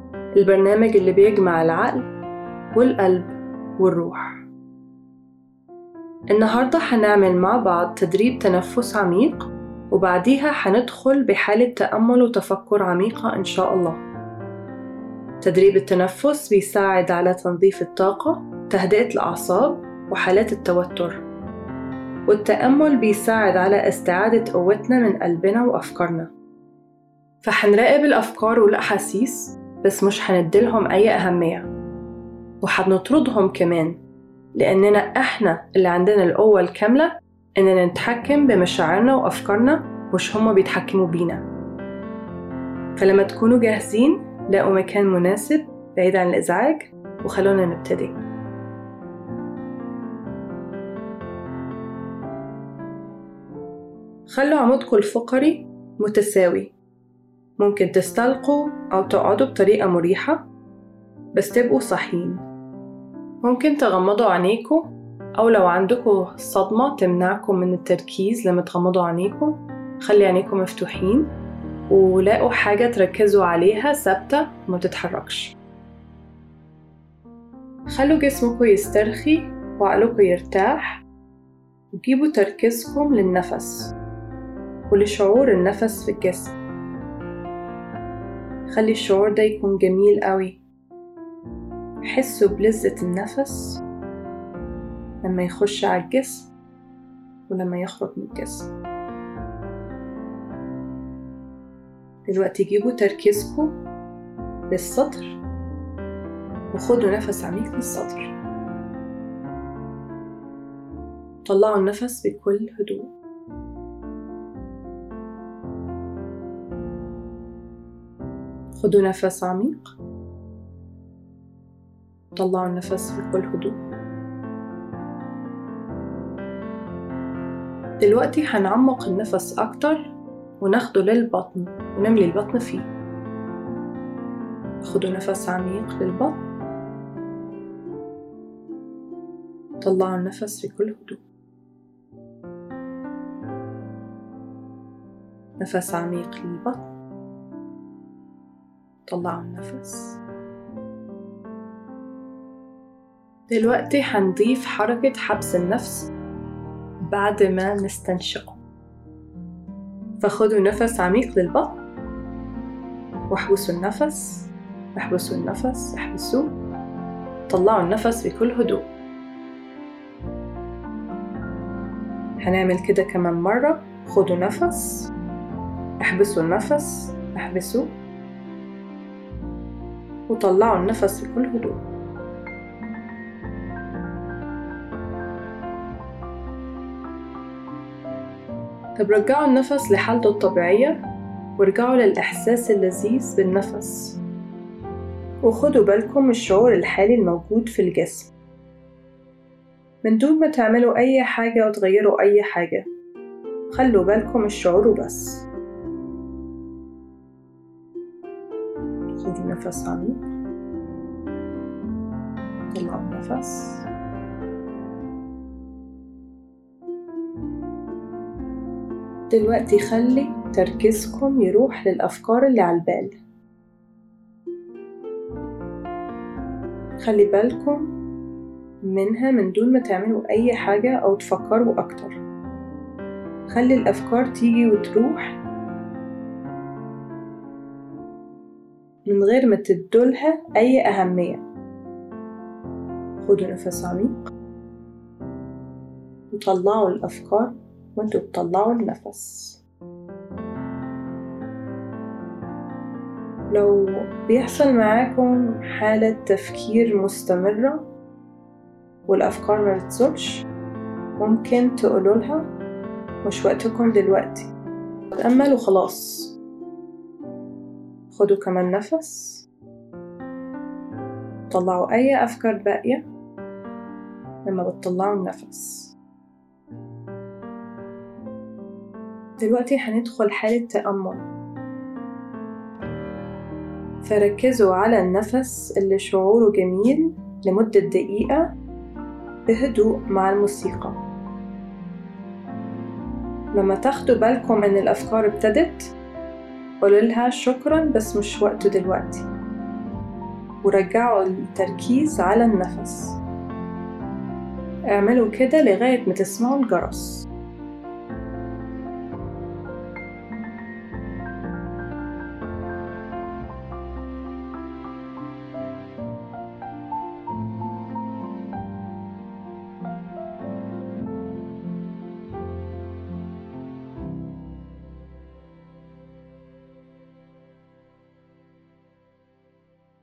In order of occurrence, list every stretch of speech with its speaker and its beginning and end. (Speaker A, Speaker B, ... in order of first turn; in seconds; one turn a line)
Speaker A: 0.3-2.1
Speaker A: 2.7-4.5
Speaker A: 6.3-14.0
Speaker A: 15.4-21.2
Speaker A: 22.2-26.3
Speaker A: 27.4-31.7
Speaker A: 32.6-34.0
Speaker A: 34.5-41.4
Speaker A: 43.0-48.2
Speaker A: 54.3-56.7
Speaker A: 57.6-60.5
Speaker A: 61.3-62.4
Speaker A: 63.4-71.3
Speaker A: 71.9-75.5
Speaker A: 77.9-81.0
Speaker A: 81.9-83.9
Speaker A: 84.9-86.5
Speaker A: 88.7-90.6
Speaker A: 92.0-93.8
Speaker A: 95.2-96.5
Speaker A: 97.5-98.7
Speaker A: 102.3-103.7
Speaker A: 104.7-105.4
Speaker A: 106.7-108.3
Speaker A: 111.4-113.1
Speaker A: 118.7-119.9
Speaker A: 122.3-123.8
Speaker A: 128.0-132.9
Speaker A: 134.8-136.4
Speaker A: 139.8-141.2
Speaker A: 145.6-146.9
Speaker A: 149.1-150.2
Speaker A: 153.5-156.1
Speaker A: 157.1-158.6
Speaker A: 160.2-161.8
Speaker A: 163.3-166.5
Speaker A: 167.5-168.9
Speaker A: 172.4-175.1
Speaker A: 176.0-178.0
Speaker A: 180.3-181.8
Speaker A: 189.0-191.0
Speaker A: 191.6-194.2
Speaker A: 195.4-198.3
Speaker A: 200.0-202.9
Speaker A: 203.7-205.4
Speaker A: 209.1-210.3
Speaker A: 212.7-213.8
Speaker A: 219.3-223.2
Speaker A: 227.0-227.9
Speaker A: 228.8-232.2
Speaker A: 233.5-235.4
Speaker A: 239.1-241.4
Speaker A: 243.2-244.3
Speaker A: 246.3-249.6
Speaker A: 253.5-257.9
Speaker A: 259.1-260.4
Speaker A: 261.2-262.5
Speaker A: 263.2-264.5
Speaker A: 265.1-266.3
Speaker A: 268.1-269.4
Speaker A: 271.5-273.1
Speaker A: 274.4-275.9
Speaker A: 279.4-281.2
Speaker A: 284.0-288.5
Speaker A: 289.5-291.0
Speaker A: 293.5-295.9
Speaker A: 296.8-299.3
Speaker A: 300.6-303.2
Speaker A: 304.9-307.2